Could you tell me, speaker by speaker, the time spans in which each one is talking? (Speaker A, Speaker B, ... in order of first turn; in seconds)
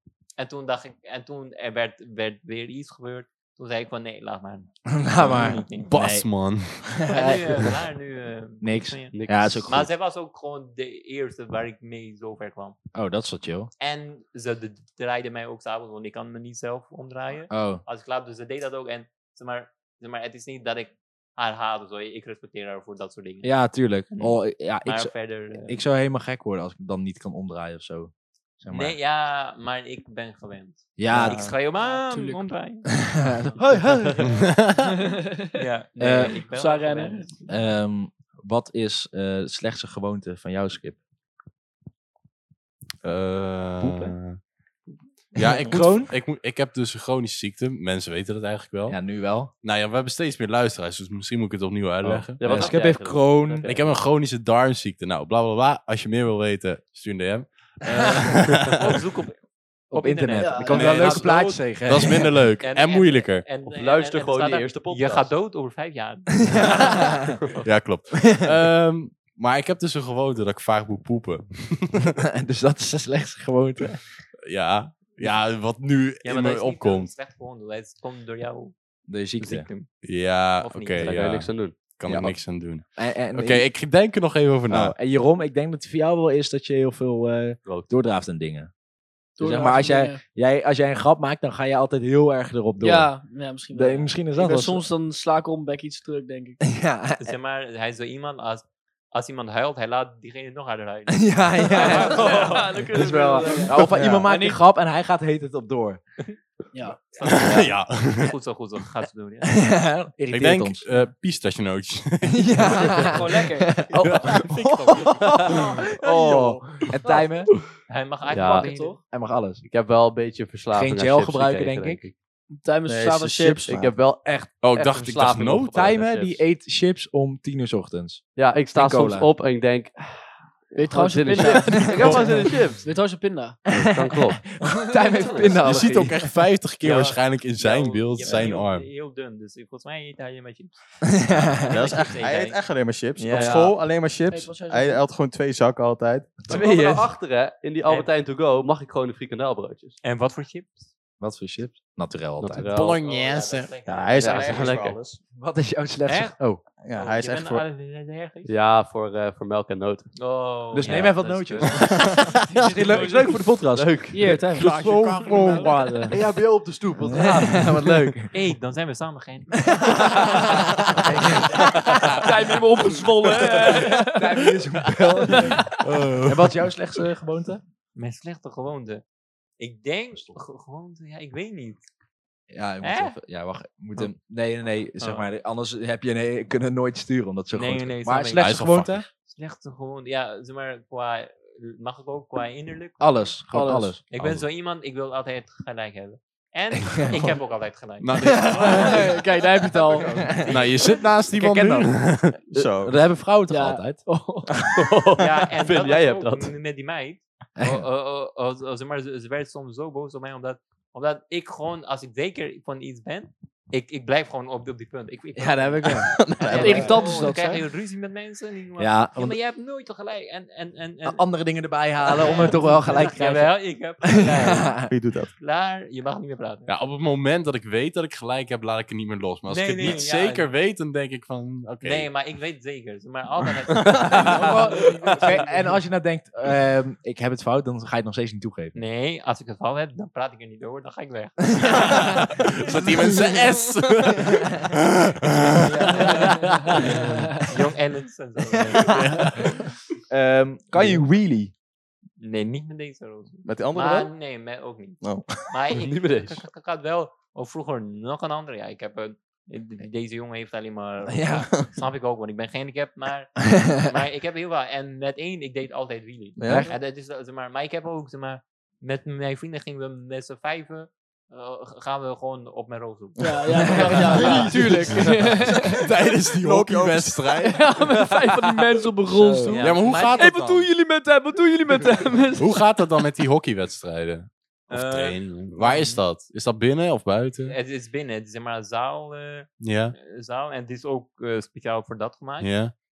Speaker A: 0.4-5.9, 7.1-12.8, 13.8-23.5, 24.1-25.8, 28.7-33.5, 35.5-37.5, 58.7-61.6, 62.6-67.7, 76.2-78.8, 79.4-81.3, 97.2-102.6, 107.1-109.6, 117.9-119.0, 136.8-142.6, 143.2-143.7, 147.9-148.1, 150.0-150.9, 153.0-155.0, 156.1-156.4, 156.9-158.5, 160.2-162.3, 168.3-169.9, 177.9-179.0, 179.6-181.9, 182.8-183.2, 185.0-185.3, 187.5-188.7, 189.2-193.4, 194.1-199.2, 199.9-201.0, 205.2-221.2, 222.0-226.7, 229.5-230.5, 231.8-235.8, 238.8-242.1, 245.8-246.9, 247.4-249.5, 252.2-274.7, 279.5-280.0, 284.7-286.1, 287.4-292.6
Speaker B: 4.9-7.7, 8.6-9.9, 12.9-13.7, 17.5-17.8, 23.4-29.0, 31.0-31.5, 33.3-34.2, 36.0-36.4, 37.5-41.0, 45.6-46.1, 48.9-49.5, 52.2-53.7, 59.9-62.5, 66.5-67.3, 68.1-68.5, 72.3-74.0, 79.1-79.7, 82.1-83.7, 84.7-88.7, 89.4-93.1, 93.7-94.9, 96.6-97.3, 101.1-106.0, 109.5-110.9, 112.3-115.4, 116.0-117.5, 119.1-119.6, 120.7-122.0, 125.7-129.3, 131.5-132.3, 133.7-136.3, 141.2-141.7, 146.4-147.1, 151.2-152.8, 155.3-156.6, 160.7-166.2, 167.1-168.3, 169.7-171.6, 173.5-177.6, 182.5-189.1, 193.0-194.0, 198.2-199.1, 200.1-200.6, 201.3-204.1, 207.6-207.8, 215.4-216.9, 218.8-219.4, 221.0-224.9, 234.1-238.8, 250.1-251.5, 261.1-261.5, 266.4-266.7, 273.5-275.0, 279.1-280.1
Speaker C: 5.9-7.1, 34.2-34.8, 43.0-44.4, 45.4-49.0, 49.6-52.7, 53.6-58.8, 60.8-63.5, 67.7-72.2, 74.5-77.1, 80.0-85.0, 107.2-108.3, 110.3-113.2, 114.0-115.1, 124.6-125.9, 135.6-138.9, 152.7-153.8, 175.8-176.5, 188.4-189.1, 194.1-194.5, 198.0-199.1, 200.4-202.5, 226.7-232.1, 241.8-247.2, 248.8-249.7, 275.4-277.7, 279.6-280.7, 282.4-287.6, 289.6-289.9, 292.4-292.7
Speaker D: 9.1-9.7, 52.0-54.0, 63.7-65.4, 81.0-81.8, 102.0-104.0, 118.3-118.7, 119.6-122.1, 123.7-126.5, 128.4-132.9, 133.7-134.6, 135.4-135.9, 143.2-143.7, 146.5-150.0, 152.4-153.0, 154.2-155.1, 158.5-160.1, 162.6-165.3, 166.1-168.2, 204.7-206.5, 255.7-256.4
Speaker E: 31.1-31.6, 115.9-116.9, 122.9-124.0, 141.7-146.4, 153.9-155.2, 156.8-157.6, 167.0-167.3, 202.5-202.9, 216.0-217.1, 224.9-225.3, 233.9-234.2, 253.4-254.1, 255.0-255.3, 266.4-266.7, 275.4-277.5
Speaker F: 31.7-32.5, 35.0-35.6, 36.4-37.4, 60.4-61.2, 89.4-90.2, 92.8-96.6, 101.7-104.6, 106.7-107.0, 112.7-113.9, 118.2-119.0, 122.5-123.8, 130.7-133.6, 134.9-135.6, 144.3-145.0, 164.1-166.2, 171.9-174.6, 175.2-175.7, 193.5-194.0, 198.6-200.4, 203.5-204.6, 216.5-217.7, 234.2-235.6, 245.9-246.6, 273.2-275.9, 277.4-282.9